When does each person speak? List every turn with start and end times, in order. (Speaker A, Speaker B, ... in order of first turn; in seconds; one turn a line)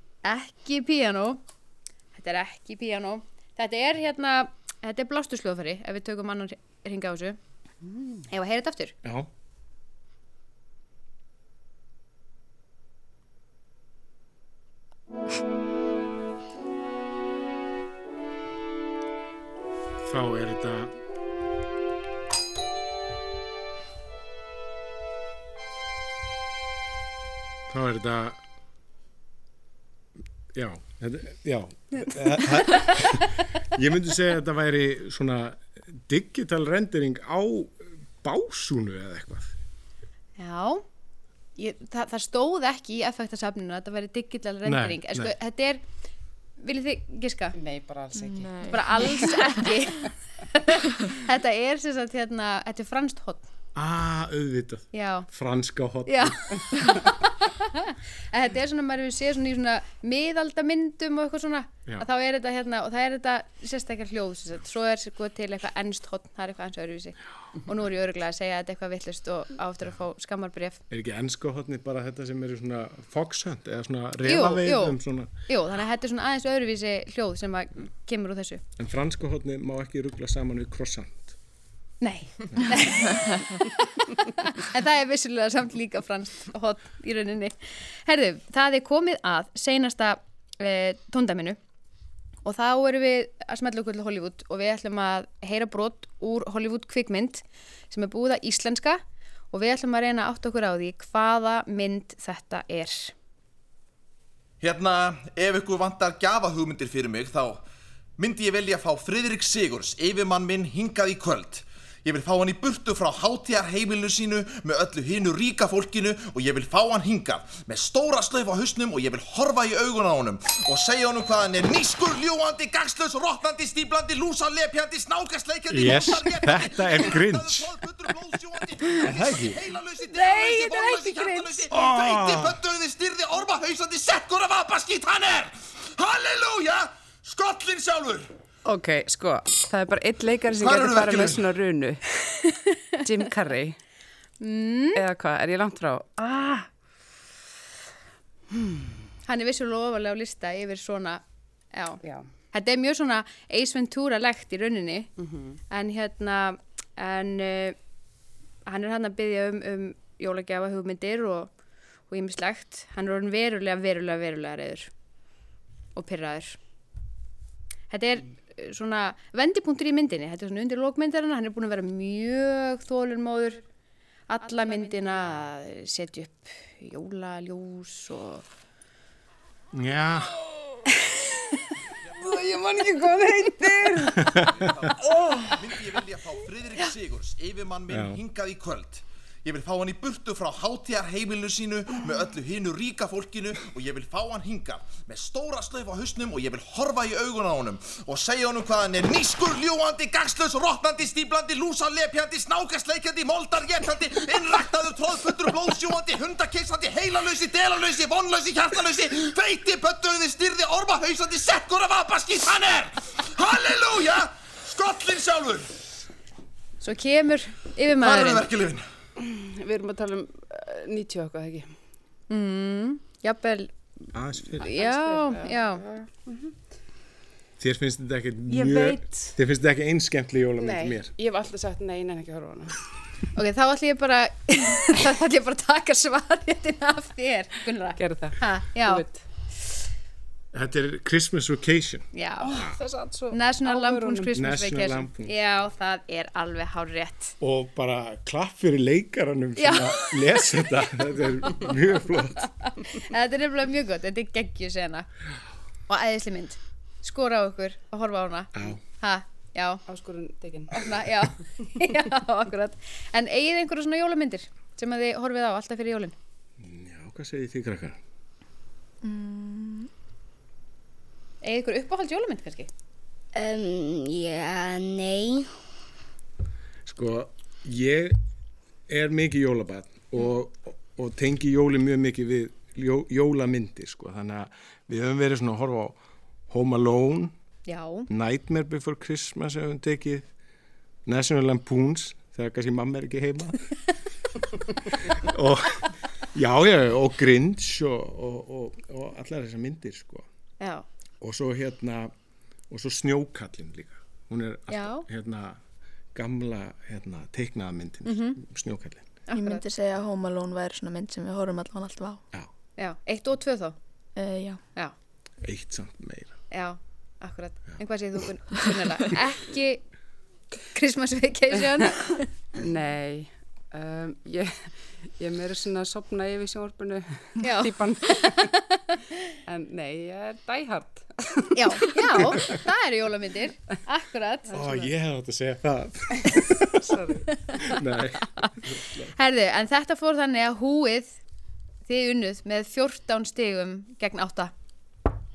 Speaker A: 0.2-1.4
Speaker A: 2.1-7.4
Speaker A: 8.3-8.9
Speaker B: 20.0-20.9
Speaker B: 27.7-28.4
Speaker B: 30.5-39.5
Speaker A: 40.4-40.8
Speaker A: 41.6-45.8
Speaker B: 44.6-45.3
Speaker A: 46.6-47.5
Speaker C: 47.5-48.7
Speaker D: 48.1-49.8
Speaker A: 48.7-53.5
Speaker B: 53.7-56.6
Speaker A: 54.9-55.3
Speaker A: 56.0-70.8
Speaker B: 70.9-75.3
Speaker A: 74.2-78.6
Speaker B: 78.8-81.3
Speaker A: 82.0-91.6
Speaker A: 92.4-99.0
Speaker A: 99.5-103.1
Speaker E: 104.6-107.6
Speaker E: 108.2-138.3
Speaker B: 125.7-127.8
Speaker B: 129.0-129.5
Speaker A: 130.1-131.4
Speaker B: 131.7-132.6
Speaker C: 138.6-142.0
Speaker E: 140.6-141.4
Speaker C: 143.0-143.8
Speaker A: 144.4-145.0
Speaker C: 144.9-146.7
Speaker C: 148.5-149.0
Speaker A: 149.2-151.2
Speaker A: 151.7-152.0
Speaker C: 152.0-152.3
Speaker A: 152.5-155.1
Speaker C: 155.2-155.6
Speaker A: 155.7-157.8
Speaker A: 158.7-161.5
Speaker A: 162.1-164.9
Speaker A: 165.9-166.6
Speaker A: 167.9-173.6
Speaker A: 174.3-178.4
Speaker C: 174.7-175.0
Speaker B: 179.7-180.4
Speaker C: 182.2-184.3
Speaker B: 184.2-184.7
Speaker E: 184.3-215.7
Speaker C: 185.1-185.5
Speaker B: 187.9-188.2
Speaker A: 216.8-218.4
Speaker E: 218.0-218.8
Speaker C: 219.2-221.7
Speaker A: 222.3-223.7
Speaker B: 224.1-224.7
Speaker A: 224.6-225.8
Speaker C: 224.6-226.5
Speaker B: 227.6-231.1
Speaker C: 228.5-229.3
Speaker C: 230.6-232.8
Speaker A: 233.3-239.0
Speaker C: 238.0-239.2
Speaker B: 240.5-242.1
Speaker A: 242.1-242.5
Speaker C: 242.4-244.3
Speaker A: 243.3-247.3
Speaker B: 244.3-245.3
Speaker B: 247.4-252.5
Speaker A: 249.6-250.4
Speaker A: 252.6-255.1
Speaker A: 255.9-259.8
Speaker B: 258.5-258.8
Speaker C: 259.9-260.9
Speaker A: 260.7-266.1
Speaker B: 266.6-268.0
Speaker D: 269.0-269.9
Speaker A: 271.4-272.7
Speaker F: 273.3-275.5
Speaker B: 276.9-278.2
Speaker B: 278.9-287.3
Speaker A: 287.7-288.1
Speaker B: 288.1-290.2
Speaker B: 291.1-293.7
Speaker B: 294.5-300.2
Speaker A: 300.6-300.8
Speaker B: 301.2-302.1
Speaker B: 302.7-305.6
Speaker A: 304.7-305.1
Speaker B: 306.1-309.2
Speaker A: 308.0-308.4
Speaker A: 309.3-309.6
Speaker D: 309.3-312.2
Speaker A: 312.8-313.8
Speaker D: 314.1-314.6
Speaker B: 315.4-316.3
Speaker A: 316.5-319.8
Speaker A: 320.7-322.3
Speaker C: 322.6-328.5
Speaker A: 327.4-328.4
Speaker C: 329.5-332.5
Speaker A: 331.5-334.9
Speaker B: 334.5-337.0
Speaker C: 336.5-337.3
Speaker B: 337.6-339.1
Speaker A: 339.1-341.2
Speaker A: 341.9-344.5